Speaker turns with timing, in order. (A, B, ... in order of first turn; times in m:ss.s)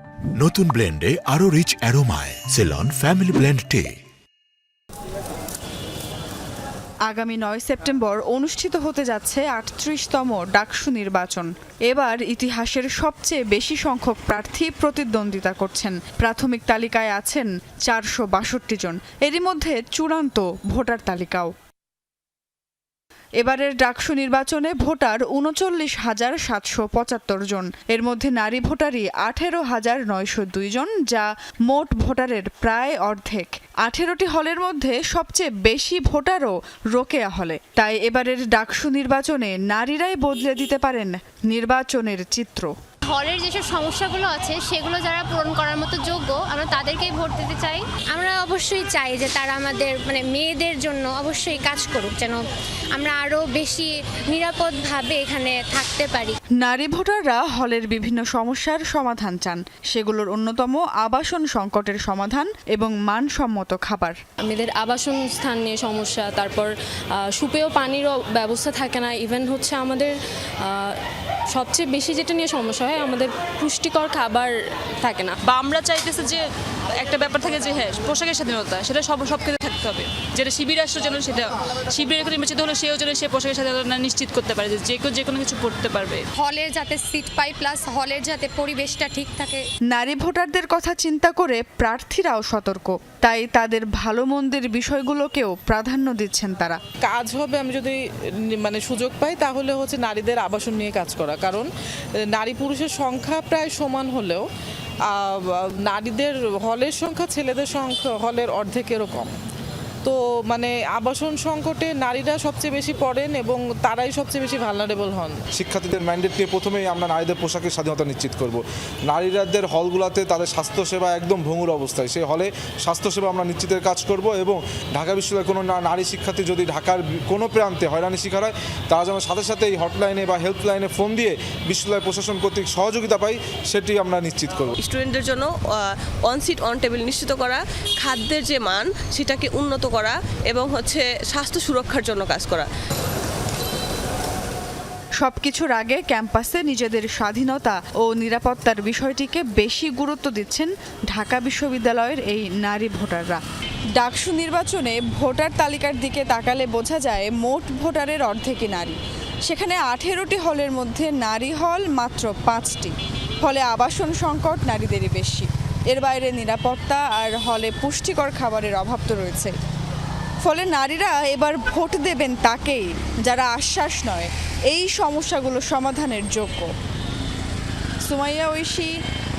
0:00.4-0:04.0 A
0:07.1-0:21.5 B
0:23.4-0:42.7 B
0:43.1-0:56.4 C
0:56.6-1:04.2 B
1:04.4-1:06.7 D
1:07.3-1:10.9 D
1:11.5-1:14.5 D
1:15.0-1:15.4 D
1:15.4-1:26.3 E
1:26.4-1:29.6 C
1:29.9-1:36.8 B
1:37.0-1:41.7 F
1:42.3-1:44.4 F
1:45.0-1:49.3 F
1:50.0-1:55.4 F
1:55.5-2:14.8 G
2:14.8-2:15.5 H
2:16.2-2:22.7 H
2:25.2-2:33.4 B
2:34.0-2:49.6 B
2:50.4-2:56.7 B
2:58.0-2:58.9 B